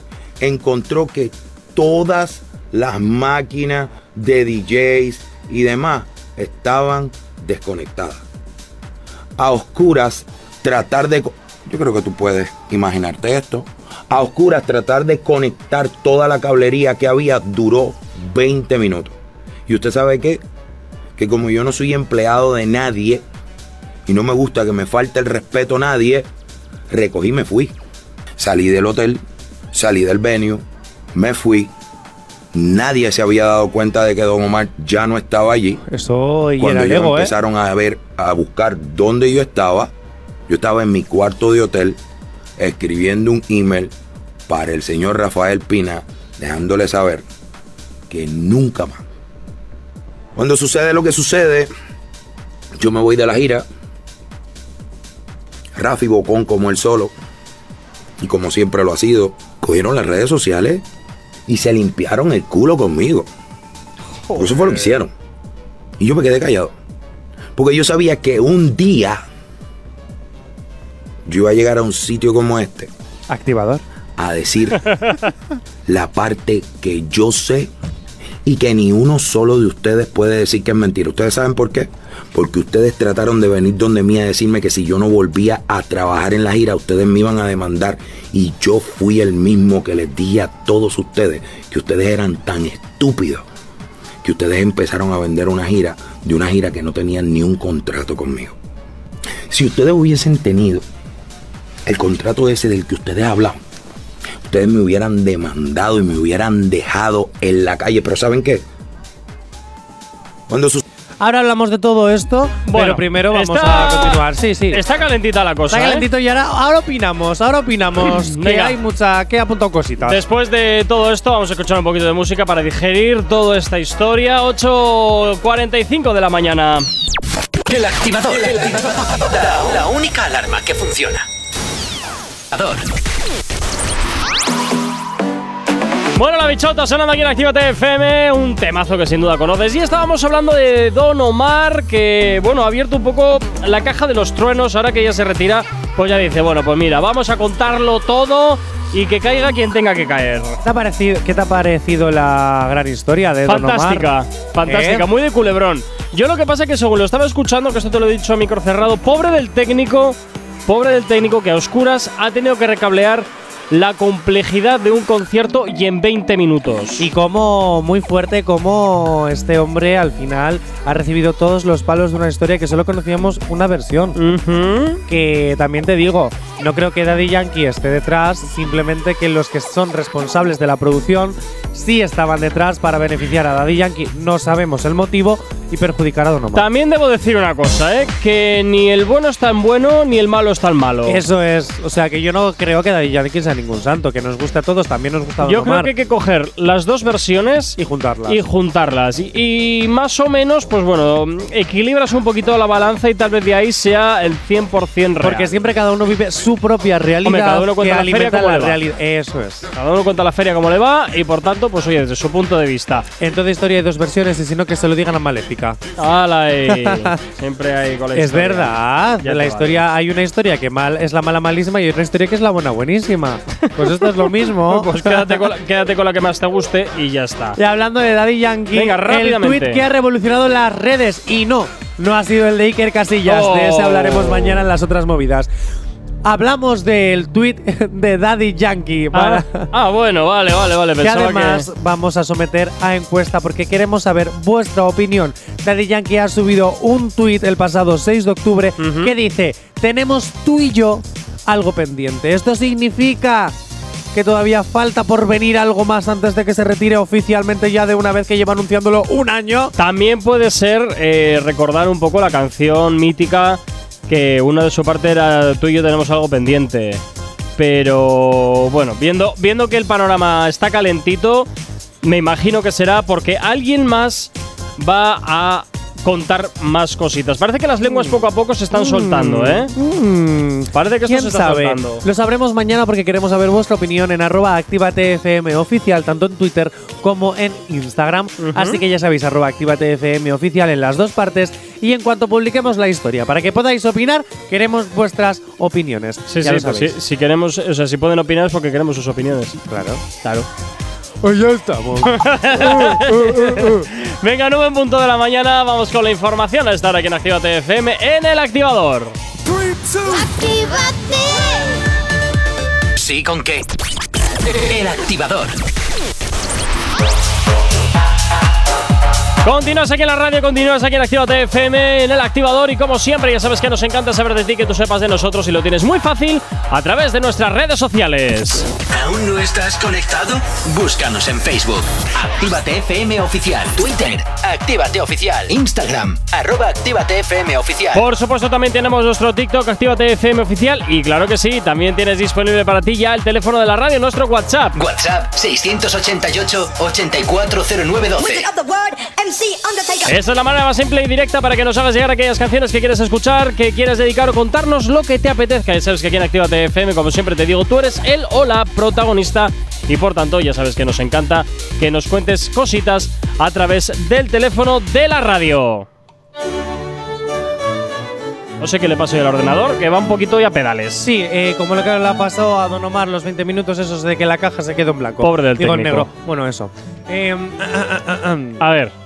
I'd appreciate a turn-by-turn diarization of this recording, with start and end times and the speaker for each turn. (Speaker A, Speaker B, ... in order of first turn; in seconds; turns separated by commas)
Speaker A: 0.4-8.2, Speaker A: 9.4-19.1, Speaker A: 19.7-20.4, Speaker A: 21.1-23.2, Speaker A: 24.1-26.3, Speaker A: 26.9-27.7, Speaker A: 28.4-31.7, Speaker A: 32.5-35.8, Speaker B: 35.9-37.3, Speaker A: 36.6-39.9, Speaker A: 40.5-42.0, Speaker A: 42.6-43.9, Speaker A: 44.5-47.2, Speaker A: 48.1-49.0, Speaker A: 50.3-51.7, Speaker A: 52.8-53.7, Speaker A: 55.7-57.1, Speaker A: 58.2-60.8, Speaker A: 61.5-63.3, Speaker C: 64.3-64.7, Speaker A: 64.3-65.1, Speaker A: 66.0-66.7, Speaker A: 67.5-69.2, Speaker A: 71.2-72.9, Speaker B: 73.3-73.8, Speaker A: 74.2-74.9, Speaker A: 75.8-77.7, Speaker A: 78.4-93.5, Speaker A: 94.2-98.5, Speaker A: 99.5-100.8, Speaker A: 101.8-103.6, Speaker A: 104.4-108.6, Speaker A: 110.5-110.8, Speaker B: 111.2-114.8, Speaker C: 112.7-116.1, Speaker B: 115.7-120.2, Speaker C: 118.0-118.8, Speaker C: 120.0-126.9, Speaker D: 127.7-131.3, Speaker D: 132.5-132.9, Speaker C: 136.1-150.6, Speaker B: 150.6-154.1, Speaker C: 153.4-167.0, Speaker B: 154.7-155.1, Speaker B: 167.0-174.2, Speaker C: 174.2-175.0, Speaker B: 175.1-186.7, Speaker C: 186.5-191.2, Speaker B: 191.1-195.9, Speaker C: 195.4-205.5, Speaker B: 197.8-198.4, Speaker B: 205.2-209.7, Speaker C: 207.2-208.8, Speaker C: 209.7-213.1, Speaker B: 213.2-215.8, Speaker C: 216.0-219.8, Speaker B: 216.7-217.1, Speaker B: 218.1-225.4, Speaker C: 223.8-227.6, Speaker B: 227.6-235.5, Speaker C: 228.7-229.8, Speaker C: 233.2-234.6, Speaker B: 236.2-239.7, Speaker C: 239.1-241.7, Speaker B: 241.0-253.5, Speaker C: 248.8-249.1, Speaker B: 254.1-259.7, Speaker C: 259.8-267.0, Speaker C: 267.6-271.5, Speaker C: 272.0-279.7, Speaker B: 277.8-278.2, Speaker B: 278.7-296.9, Speaker C: 280.7-282.0, Speaker C: 288.4-288.8, Speaker C: 296.3-299.6, Speaker B: 299.7-300.0, Speaker B: 301.2-303.9, Speaker C: 302.1-309.1, Speaker B: 309.5-310.3, Speaker E: 310.1-311.8, Speaker D: 312.9-313.6, Speaker D: 314.5-315.6, Speaker C: 319.4-328.7, Speaker D: 328.9-338.1, Speaker C: 337.9-344.7, Speaker D: 344.7-348.5, Speaker E: 348.2-350.2, Speaker C: 350.0-365.9, Speaker C: 368.6-371.1, Speaker B: 371.0-378.6, Speaker C: 375.2-376.1, Speaker C: 378.6-378.9